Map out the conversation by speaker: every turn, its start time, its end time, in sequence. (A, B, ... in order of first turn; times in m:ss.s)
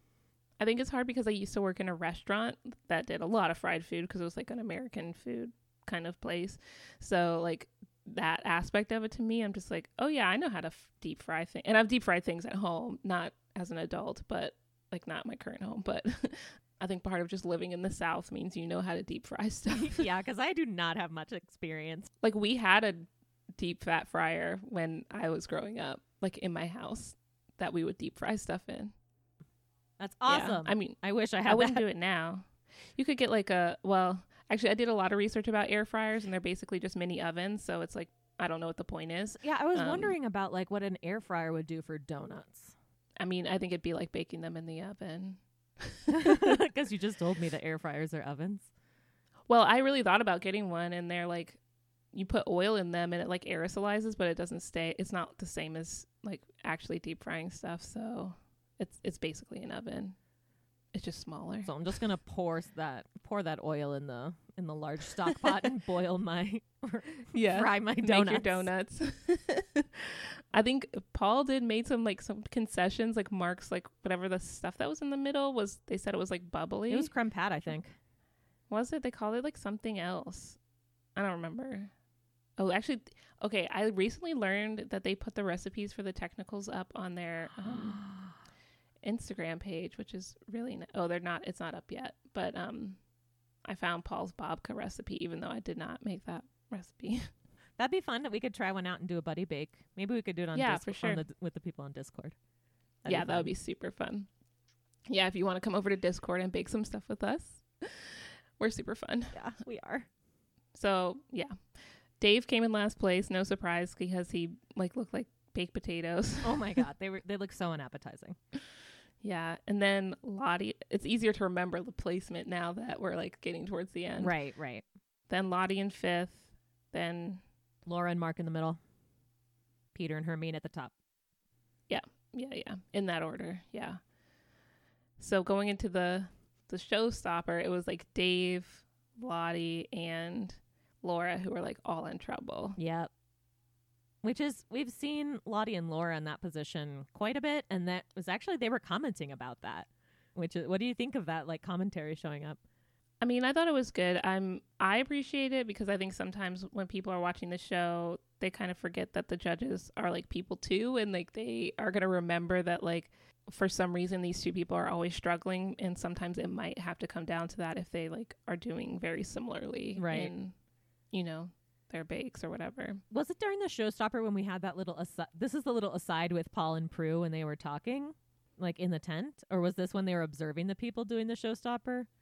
0:00.6-0:20.0 A
0:19.7-0:22.1 B
0:22.2-0:28.9 A
0:30.0-0:31.8 B
0:30.3-0:40.1 A
0:39.4-0:42.7 B
0:43.2-0:46.6 A
0:46.1-0:48.7 B
0:49.5-0:51.6 A
0:52.1-1:00.2 A
1:00.9-1:01.7 A
1:01.6-1:08.7 B
1:07.3-1:17.1 A
1:16.9-1:17.9 B
1:18.7-1:20.6 A
1:21.2-1:21.9 A
1:22.6-1:28.0 A
1:29.0-1:33.0 A
1:33.6-1:37.3 A
1:37.8-1:42.3 B
1:40.5-1:41.2 A
1:43.0-1:43.5 B
1:43.0-1:44.3 A
1:45.1-1:49.4 A
1:49.3-1:50.1 B
1:50.7-1:51.5 A
1:52.2-1:56.8 A
1:56.4-1:58.4 B
1:59.2-2:04.3 A
2:04.2-2:04.8 B
2:05.3-2:07.4 A
2:07.8-2:08.8 B
2:09.9-2:10.9 B
2:11.9-2:14.0 A
2:15.2-2:22.8 A
2:22.8-2:23.1 B
2:24.2-2:32.6 B
2:33.2-2:50.5 A
2:50.0-2:50.3 B
2:51.1-2:53.0 A
2:53.1-3:02.1 B